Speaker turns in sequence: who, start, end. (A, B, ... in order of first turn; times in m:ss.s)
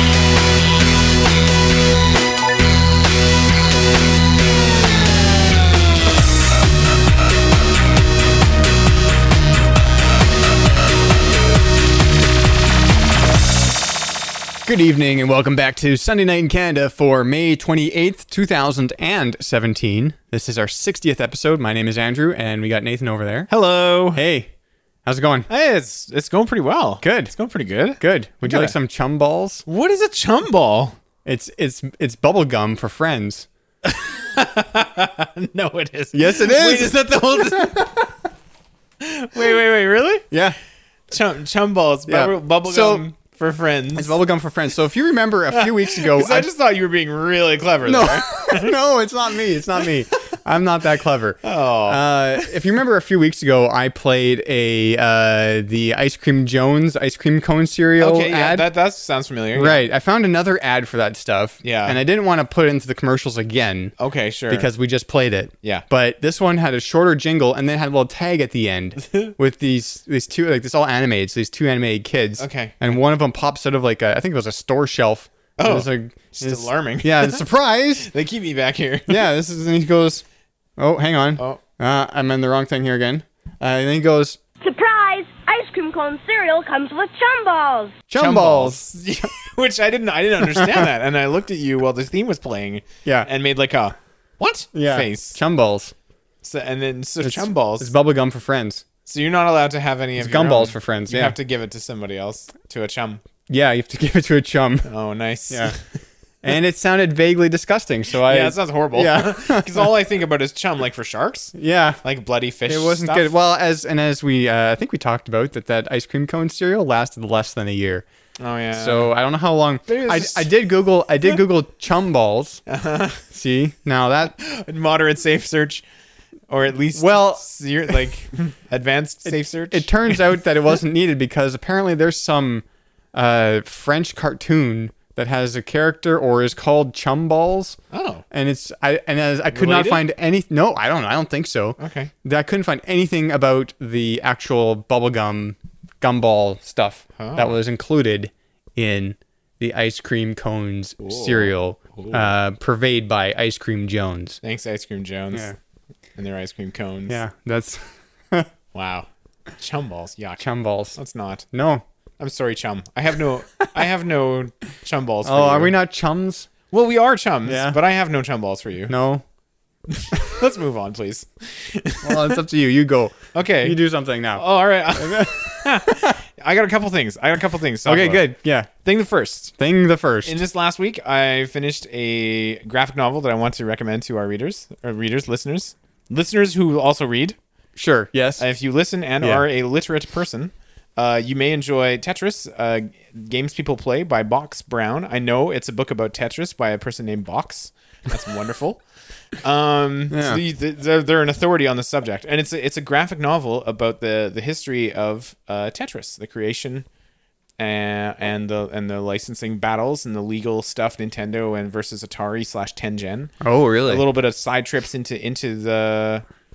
0:14.7-0:23.5 A
0:23.5-0:24.2 B
0:24.1-0:24.5 A
0:25.0-0:25.5 A
0:25.5-0:28.8 B
0:27.0-0:27.3 A
0:28.0-0:29.6 A
0:29.7-0:31.0 B
0:31.2-0:33.5 A
0:33.8-0:38.1 B
0:36.1-0:37.9 A
0:39.0-0:40.3 B
0:40.3-0:40.6 A
0:41.1-0:44.2 B
0:42.1-0:43.1 A
0:44.0-0:46.5 A
0:45.5-0:48.8 B
0:47.8-0:58.7 A
0:51.4-0:52.7 B
0:58.0-0:59.8 B
0:59.6-1:03.9 A
1:01.6-1:02.0 B
1:04.0-1:04.7 B
1:04.5-1:18.1 A
1:12.4-1:13.0 B
1:15.6-1:17.4 B
1:18.0-1:19.3 B
1:19.1-1:20.2 A
1:20.8-1:24.4 A
1:24.6-1:28.0 C
1:28.1-1:28.9 A
1:28.2-1:35.4 B
1:30.6-1:30.9 A
1:34.7-1:35.9 A
1:36.4-1:37.9 B
1:37.2-1:38.8 A
1:39.1-1:43.2 B
1:40.2-1:41.4 A
1:43.5-1:44.9 A
1:44.8-1:45.8 B
1:45.5-1:45.8 A
1:46.4-1:49.9 A
1:48.2-1:53.3 B
1:51.5-1:52.0 A
1:52.7-1:58.1 A
1:58.4-1:59.2 B
1:58.7-2:02.6 A
1:59.9-2:00.6 B
2:02.7-2:03.2 B
2:03.3-2:04.4 A
2:04.4-2:05.8 B
2:06.5-2:10.4 B
2:07.0-2:07.4 A
2:09.3-2:17.8 A
2:17.9-2:18.2 B
2:18.3-2:34.4 A
2:19.5-2:20.1 B
2:21.8-2:22.1 B
2:27.2-2:27.6 B
2:31.0-2:32.4 B
2:34.4-2:35.5 B
2:36.2-2:37.2 B
2:37.1-2:38.5 A
2:38.7-2:41.5 B
2:40.4-2:41.0 A
2:41.5-2:41.8 A
2:42.2-2:45.7 B
2:45.2-2:46.5 A
2:46.7-2:49.0 B
2:47.5-2:47.8 A
2:48.9-2:49.2 A
2:49.9-2:52.4 B
2:52.0-2:54.4 A
2:53.3-2:53.8 B
2:54.3-2:58.3 B
2:55.0-2:56.2 A
2:57.8-2:58.7 A
2:58.8-2:59.5 B
2:59.6-3:00.4 A
3:00.2-3:07.4 B
3:07.8-3:08.5 A
3:08.4-3:18.8 B
3:19.4-3:26.9 B
3:20.1-3:20.4 A
3:27.6-3:33.3 B
3:33.4-3:34.0 A
3:33.9-3:36.2 B